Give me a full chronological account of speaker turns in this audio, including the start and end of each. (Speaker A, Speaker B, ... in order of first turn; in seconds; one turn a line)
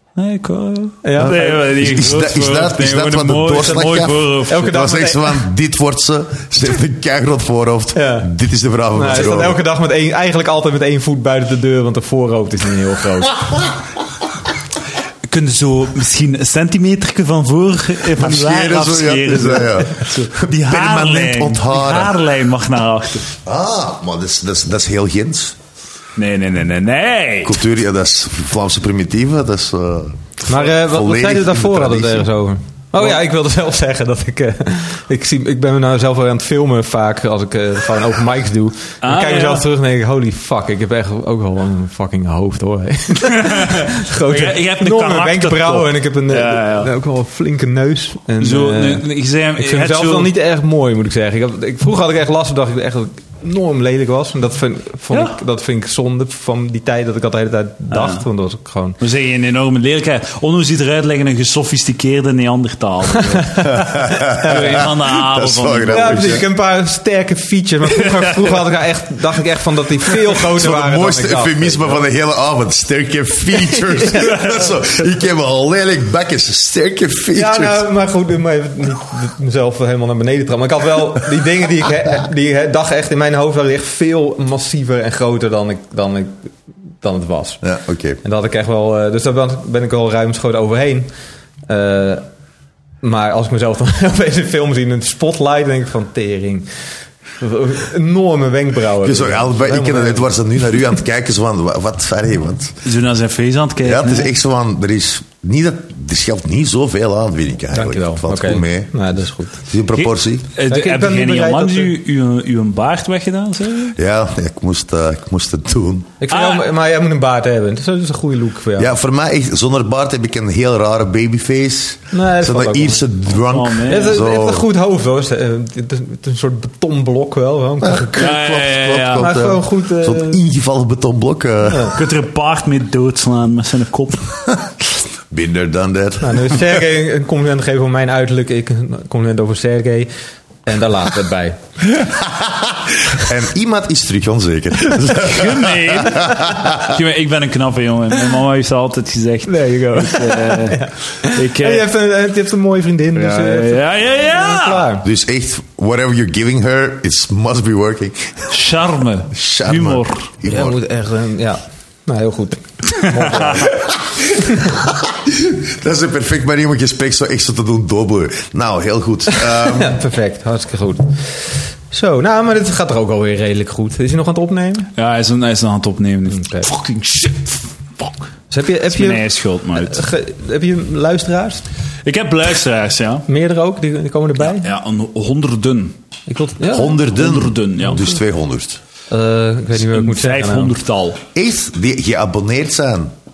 Speaker A: 0.2-4.8
Speaker B: 1.0-1.6
Speaker C: 1.8-9.6
Speaker B: 4.5-5.4
Speaker B: 8.0-8.3
Speaker B: 8.9-13.7
Speaker A: 15.3-23.3
Speaker C: 18.2-22.1
Speaker C: 23.4-25.6
Speaker A: 26.2-27.6
Speaker C: 27.4-32.3
Speaker B: 30.5-59.0
Speaker A: 39.0-39.7
Speaker A: 43.3-46.9
Speaker A: 48.4-50.3
Speaker A: 57.9-58.2
Speaker A: 59.0-66.3
Speaker C: 63.6-66.5
Speaker B: 64.4-64.8
Speaker B: 65.9-72.0
Speaker C: 70.5-77.8
Speaker B: 73.8-74.2
Speaker A: 74.3-74.5
Speaker B: 77.3-87.6
Speaker C: 87.6-88.2
Speaker B: 88.2-91.1
Speaker B: 91.7-92.2
Speaker B: 93.0-96.7
Speaker B: 97.4-100.4
Speaker C: 99.0-102.8
Speaker A: 102.8-104.3
Speaker C: 103.8-109.0
Speaker B: 107.7-109.6
Speaker C: 109.7-110.5
Speaker A: 110.0-114.0
Speaker B: 110.7-111.9
Speaker C: 114.0-116.1
Speaker B: 116.2-118.9
Speaker A: 116.3-116.7
Speaker C: 118.8-124.7
Speaker B: 122.1-123.1
Speaker A: 123.5-124.2
Speaker B: 123.9-128.4
Speaker C: 127.8-131.9
Speaker A: 128.2-129.3
Speaker B: 129.2-130.4
Speaker B: 131.7-132.0
Speaker A: 131.9-134.3
Speaker C: 135.3-136.7
Speaker B: 136.2-140.1
Speaker B: 140.7-141.6
Speaker C: 142.0-146.9
Speaker A: 145.1-151.8
Speaker B: 149.5-155.1
Speaker A: 153.1-154.9
Speaker C: 155.0-158.5
Speaker A: 158.5-160.3
Speaker C: 159.3-160.8
Speaker B: 160.4-163.9
Speaker A: 163.0-163.7
Speaker B: 164.4-164.7
Speaker C: 164.8-169.9
Speaker B: 169.3-174.9
Speaker A: 175.0-178.2
Speaker B: 176.3-176.7
Speaker B: 178.5-181.6
Speaker A: 178.9-180.0
Speaker A: 182.1-183.3
Speaker B: 183.3-184.7
Speaker A: 184.5-186.0
Speaker B: 186.3-187.0
Speaker C: 186.7-188.8
Speaker A: 187.1-188.2
Speaker B: 189.1-190.8
Speaker A: 189.9-191.2
Speaker C: 191.3-193.1